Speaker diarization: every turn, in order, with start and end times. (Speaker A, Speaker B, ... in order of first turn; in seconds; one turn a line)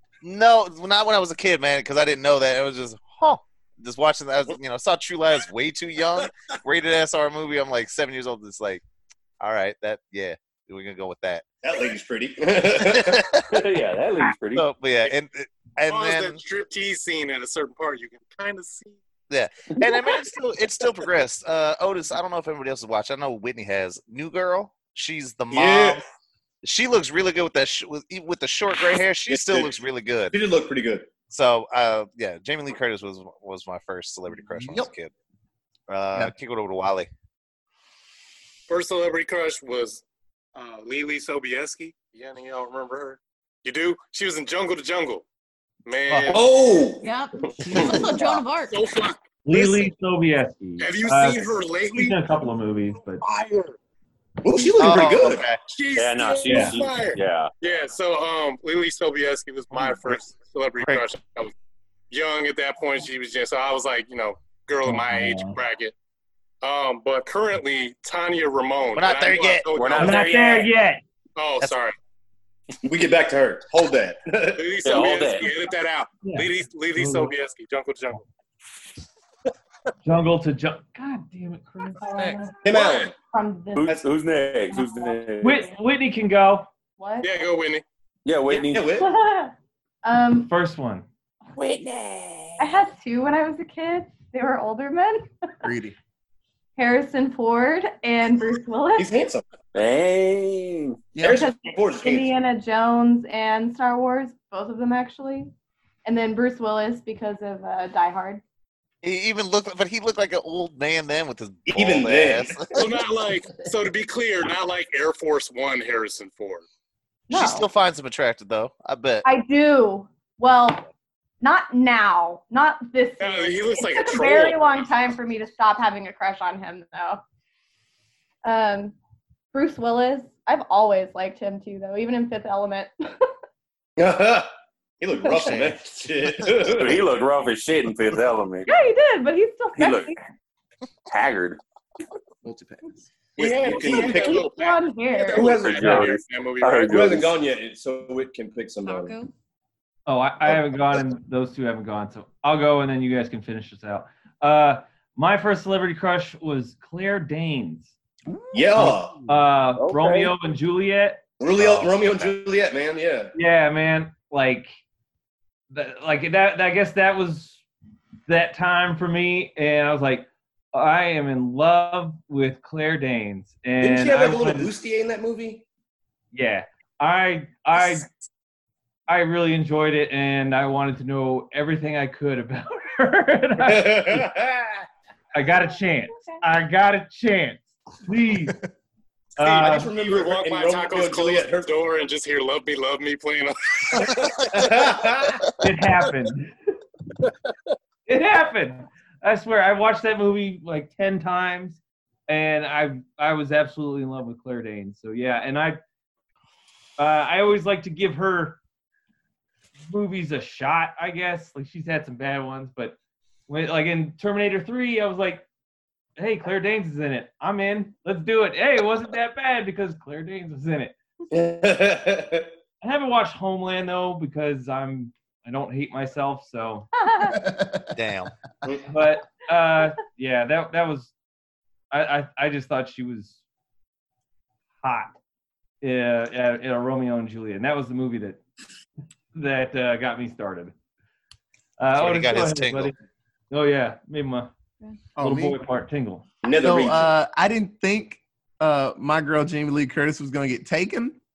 Speaker A: 0.2-8.8
Speaker A: 9.4-11.4
Speaker B: 11.6-13.2
Speaker A: 12.8-13.5
Speaker C: 13.5-14.7
Speaker A: 14.5-16.4
Speaker D: 15.9-19.0
Speaker A: 19.3-26.0
Speaker B: 25.5-26.0
Speaker A: 26.6-30.4
Speaker B: 29.3-29.8
Speaker B: 30.3-31.1
Speaker A: 31.3-35.1
Speaker E: 34.6-34.9
Speaker A: 35.9-37.1
Speaker D: 38.7-40.0
Speaker D: 40.5-45.2
Speaker D: 45.9-46.5
Speaker A: 46.1-46.4
Speaker B: 46.3-48.2
Speaker F: 47.0-48.8
Speaker A: 47.6-48.1
Speaker D: 48.7-49.9
Speaker G: 49.4-53.2
Speaker D: 50.8-52.2
Speaker D: 53.2-53.7
Speaker B: 54.4-55.5
Speaker A: 54.8-55.6
Speaker D: 55.7-61.5
Speaker C: 56.0-57.5
Speaker G: 56.5-56.8
Speaker A: 59.7-60.1
Speaker D: 62.1-65.9
Speaker G: 64.8-65.6
Speaker D: 66.6-70.6
Speaker A: 68.9-69.7
Speaker C: 69.7-70.6
Speaker G: 70.0-71.0
Speaker D: 71.3-72.0
Speaker B: 72.8-74.7
Speaker D: 74.6-78.2
Speaker C: 74.8-75.5
Speaker G: 76.2-77.3
Speaker G: 80.0-82.5
Speaker H: 82.0-83.9
Speaker B: 82.6-83.1
Speaker D: 82.7-83.1
Speaker C: 83.7-85.7
Speaker H: 84.7-85.5
Speaker G: 85.4-86.7
Speaker H: 87.0-87.3
Speaker D: 87.2-87.8
Speaker C: 88.2-88.9
Speaker B: 88.5-89.1
Speaker H: 89.0-90.5
Speaker G: 90.5-91.0
Speaker C: 91.5-92.7
Speaker H: 92.6-95.3
Speaker E: 95.6-96.0
Speaker H: 96.8-99.1
Speaker B: 99.0-99.4
Speaker C: 99.7-101.0
Speaker E: 101.1-101.4
Speaker B: 101.2-102.3
Speaker H: 101.2-105.5
Speaker H: 106.0-108.4
Speaker A: 109.0-112.8
Speaker B: 111.7-112.9
Speaker D: 112.7-116.6
Speaker H: 117.3-117.7
Speaker A: 117.3-119.2
Speaker H: 119.2-120.9
Speaker H: 121.4-127.2
Speaker D: 123.2-124.9
Speaker H: 128.4-128.9
Speaker H: 129.5-132.9
Speaker B: 134.0-134.5
Speaker B: 135.0-137.0
Speaker A: 135.4-135.7
Speaker C: 136.6-138.7
Speaker H: 138.7-140.2
Speaker C: 139.7-140.2
Speaker C: 141.1-141.6
Speaker E: 142.4-143.1
Speaker D: 143.3-147.2
Speaker B: 143.4-144.4
Speaker H: 143.7-145.6
Speaker B: 145.3-146.1
Speaker C: 145.6-147.3
Speaker B: 146.9-149.1
Speaker F: 148.8-149.3
Speaker G: 150.1-157.9
Speaker B: 158.5-159.2
Speaker G: 158.8-161.2
Speaker C: 159.8-160.3
Speaker B: 161.4-163.3
Speaker A: 161.6-162.3
Speaker G: 163.3-164.7
Speaker G: 165.7-167.6
Speaker G: 168.3-174.7
Speaker B: 173.8-175.6
Speaker G: 176.3-178.1
Speaker G: 179.1-184.3
Speaker B: 183.6-184.8
Speaker G: 185.3-188.6
Speaker H: 186.1-186.4
Speaker G: 189.4-189.9
Speaker B: 189.4-191.7
Speaker D: 189.4-194.3
Speaker B: 194.5-195.4
Speaker G: 195.6-196.5
Speaker G: 198.1-205.8
Speaker G: 207.0-208.6
Speaker G: 209.9-213.0
Speaker G: 213.5-215.4
Speaker G: 216.2-220.9
Speaker B: 221.3-222.5
Speaker G: 222.8-226.9
Speaker H: 227.0-227.4
Speaker E: 227.2-227.9
Speaker A: 227.9-228.3
Speaker G: 228.9-231.1
Speaker G: 231.9-233.4
Speaker G: 234.8-235.1
Speaker G: 235.8-238.4
Speaker G: 239.3-240.7
Speaker G: 241.8-242.9
Speaker A: 241.9-242.9
Speaker G: 243.5-244.5
Speaker E: 245.2-245.6
Speaker G: 245.2-246.2
Speaker B: 246.4-247.1
Speaker E: 246.6-251.2